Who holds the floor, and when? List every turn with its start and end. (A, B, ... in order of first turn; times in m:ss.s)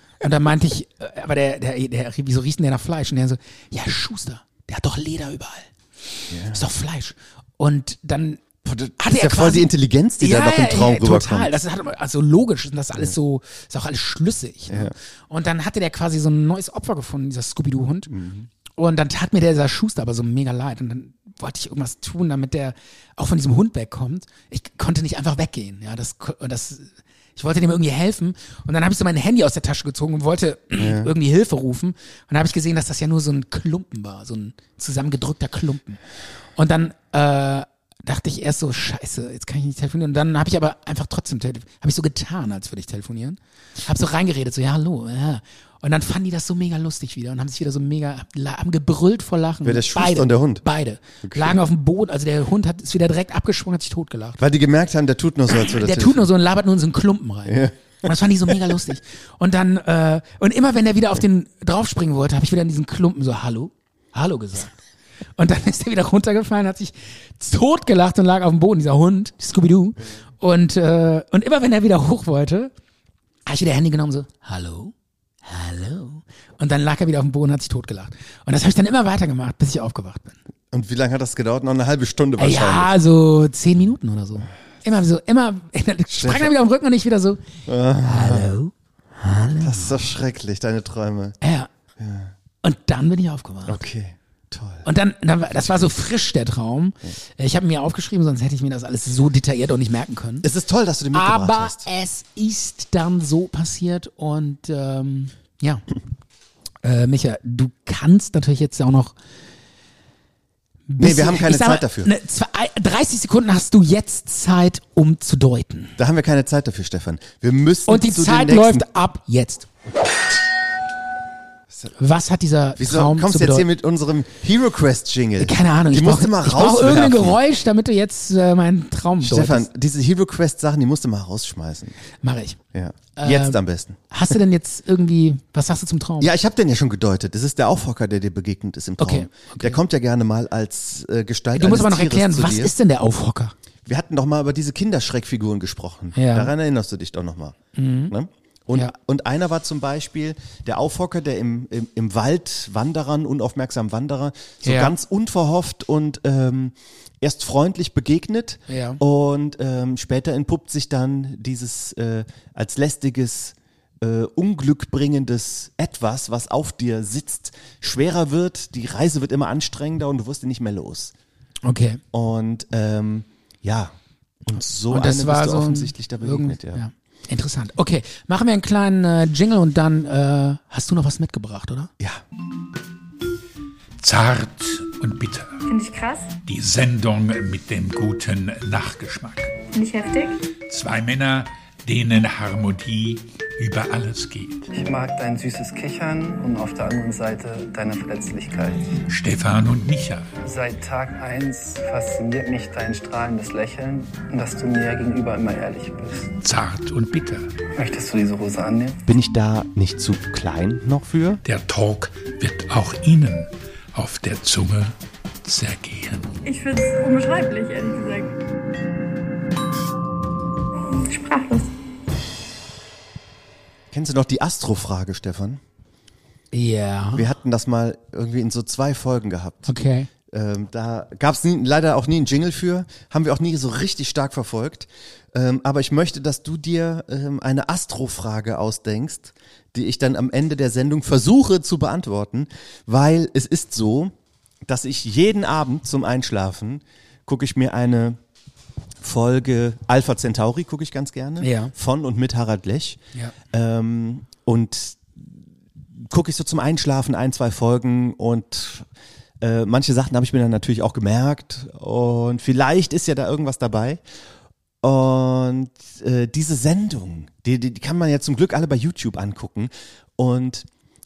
0:00.2-0:08.4 A
0:06.3-0:06.6 B
0:08.6-0:11.5 B
0:09.0-0:18.1 A
0:14.7-0:14.9 B
0:18.1-0:18.5 B
0:18.8-0:36.0 A
0:30.8-0:31.1 B
0:36.6-0:54.4 A
0:49.6-0:50.6 B
0:51.2-0:51.6 B
0:54.4-0:56.3 B
0:55.6-1:04.8 A
0:57.5-0:57.8 B
1:05.4-1:12.7 A
1:13.4-1:14.9 A
1:15.4-1:20.4 A
1:20.7-1:22.9 B
1:22.4-1:27.4 A
1:26.1-1:26.5 B
1:27.6-1:28.5 B
1:28.0-1:29.9 A
1:29.6-1:31.4 B
1:31.4-1:31.7 A
1:32.0-1:32.3 B
1:32.6-1:33.8 A
1:33.6-1:34.8 B
1:34.8-1:40.5 A
1:35.6-1:35.9 B
1:40.4-1:41.9 B
1:41.1-1:45.9 A
1:46.8-1:49.1 A
1:50.9-1:55.9 A
1:51.0-1:52.1 B
1:56.0-1:58.9 B
1:57.9-1:59.7 A
2:02.0-2:03.7 A
2:02.8-2:07.4 B
2:05.4-2:09.7 A
2:09.2-2:12.0 B
2:12.2-2:12.6 A
2:12.7-2:14.0 B
2:13.2-2:13.6 A
2:14.1-2:16.3 A
2:16.2-2:22.7 B
2:19.0-2:19.8 A
2:21.6-2:23.5 A
2:23.8-2:27.6 B
2:26.1-2:26.5 A
2:27.7-2:28.1 A
2:28.1-2:51.1 B
2:34.6-2:34.9 A
2:38.7-2:39.0 A
2:51.6-2:52.0 A
2:52.1-2:56.8 B
2:54.9-3:01.9 A
3:04.0-3:05.6 C
3:05.6-3:06.4 D
3:06.4-3:09.6 C
3:09.7-3:10.4 D
3:10.7-3:14.7 C
3:14.7-3:18.9 E
3:19.1-3:20.3 C
3:20.4-3:26.3 E
3:26.4-3:27.5 C
3:27.8-3:29.0 E
3:29.0-3:31.4 B
3:31.4-3:36.3 C
3:36.4-3:38.4 D
3:40.8-3:41.7 D
3:43.9-3:45.6 B
3:46.5-3:47.2 A
3:47.1-3:49.7 B
3:49.7-3:50.1 A
3:50.3-4:04.1 B
4:04.6-4:08.2 B
4:09.0-4:13.0 B
4:11.4-4:11.7 A
4:13.5-4:15.4 B
4:16.0-4:18.9 B
4:19.4-4:24.0 B
4:24.8-4:30.7 B